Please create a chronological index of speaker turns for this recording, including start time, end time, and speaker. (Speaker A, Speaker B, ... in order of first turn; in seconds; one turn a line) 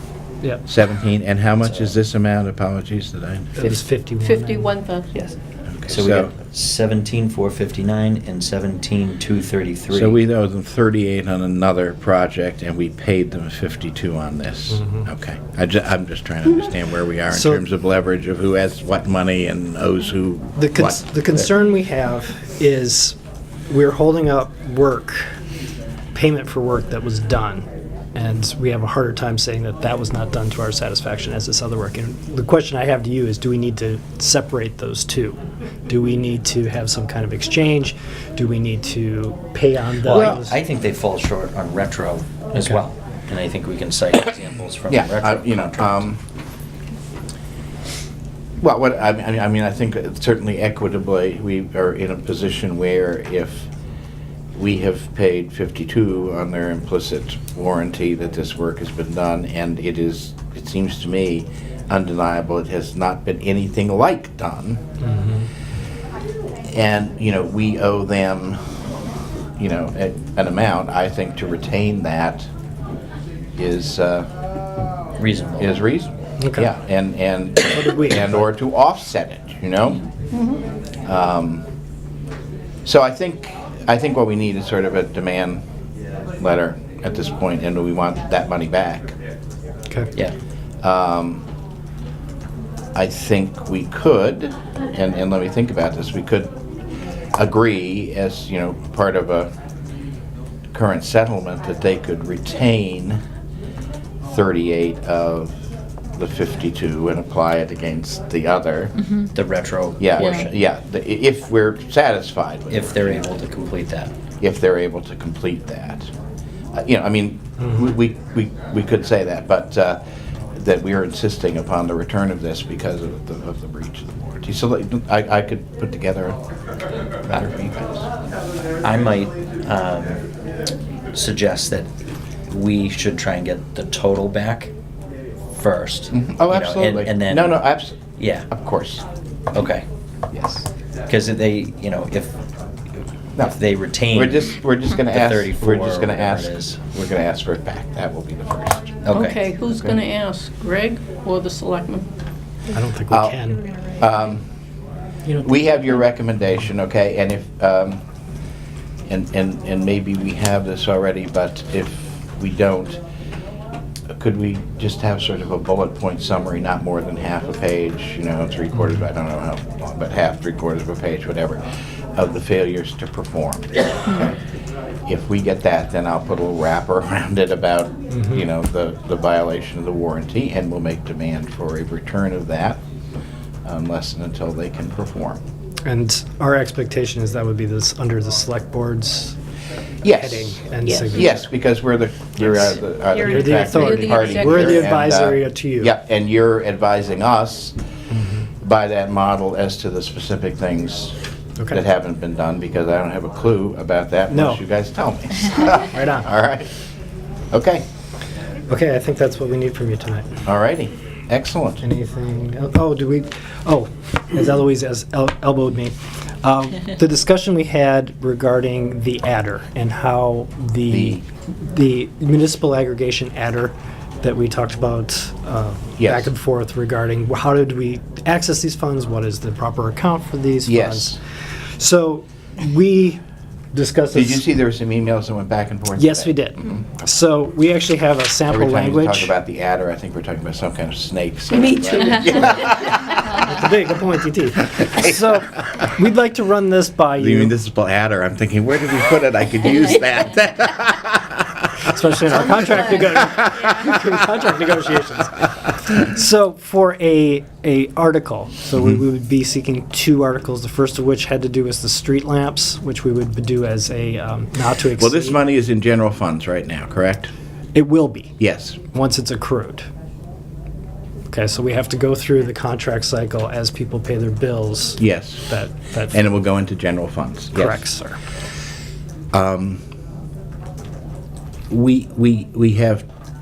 Speaker A: 0.7-3.8
Speaker B: 1.6-1.9
Speaker C: 3.5-4.8
Speaker D: 4.2-5.1
Speaker A: 5.7-6.3
Speaker B: 5.9-10.2
Speaker A: 9.9-21.5
Speaker C: 17.3-17.6
Speaker C: 20.6-23.2
Speaker C: 23.7-25.3
Speaker C: 26.1-40.6
Speaker B: 40.0-46.0
Speaker A: 40.1-40.5
Speaker A: 44.9-46.2
Speaker A: 48.6-53.7
Speaker A: 54.6-64.8
Speaker C: 65.0-65.5
Speaker A: 66.7-68.6
Speaker A: 69.6-72.5
Speaker A: 73.6-74.3
Speaker B: 75.2-75.8
Speaker A: 75.6-80.0
Speaker C: 76.4-76.7
Speaker C: 77.7-78.5
Speaker D: 80.3-80.6
Speaker A: 81.0-81.6
Speaker A: 82.8-85.6
Speaker A: 86.4-89.2
Speaker A: 90.8-91.4
Speaker A: 93.0-96.5
Speaker A: 97.4-99.5
Speaker A: 100.7-103.2
Speaker A: 104.3-105.6
Speaker A: 106.2-109.1
Speaker B: 109.3-110.5
Speaker A: 110.0-113.3
Speaker B: 112.7-114.1
Speaker A: 114.4-116.1
Speaker A: 116.7-120.0
Speaker A: 120.5-126.4
Speaker A: 127.2-128.1
Speaker B: 128.8-130.2
Speaker B: 131.1-131.9
Speaker B: 132.5-134.7
Speaker B: 135.6-137.6
Speaker A: 136.1-139.1
Speaker B: 138.2-138.5
Speaker B: 139.5-139.9
Speaker A: 140.3-140.7
Speaker B: 141.1-142.3
Speaker B: 143.0-144.5
Speaker A: 144.1-150.0
Speaker B: 145.1-146.8
Speaker D: 149.1-152.1
Speaker C: 152.7-153.7
Speaker A: 153.1-154.4
Speaker A: 155.4-158.0
Speaker A: 159.1-163.0
Speaker A: 164.2-171.6
Speaker A: 172.2-174.4
Speaker A: 175.1-182.8
Speaker C: 178.1-178.5
Speaker A: 183.7-185.4
Speaker C: 185.8-189.4
Speaker A: 190.0-197.8
Speaker C: 190.1-191.5
Speaker D: 193.1-195.0
Speaker C: 193.2-195.9
Speaker C: 198.1-198.4
Speaker A: 198.6-201.2
Speaker A: 201.7-206.7
Speaker C: 204.3-204.6
Speaker C: 205.9-206.3
Speaker A: 207.5-207.8
Speaker C: 208.7-210.3
Speaker A: 210.4-211.8
Speaker C: 211.8-231.2
Speaker A: 220.9-221.2
Speaker A: 226.0-226.3
Speaker A: 230.7-231.2
Speaker C: 231.8-233.2
Speaker C: 233.7-234.4
Speaker A: 234.1-237.1
Speaker C: 236.0-239.3
Speaker A: 238.5-243.3
Speaker D: 241.5-242.6
Speaker C: 243.4-247.6
Speaker A: 244.8-245.1
Speaker A: 247.2-254.6
Speaker C: 251.9-265.4
Speaker A: 258.8-259.0
Speaker A: 265.0-267.3
Speaker C: 267.8-268.4
Speaker A: 268.4-268.8
Speaker C: 268.9-269.9
Speaker C: 271.3-276.2
Speaker A: 275.0-275.5
Speaker A: 276.1-277.9
Speaker C: 277.6-278.2
Speaker A: 279.3-279.8
Speaker A: 281.7-283.1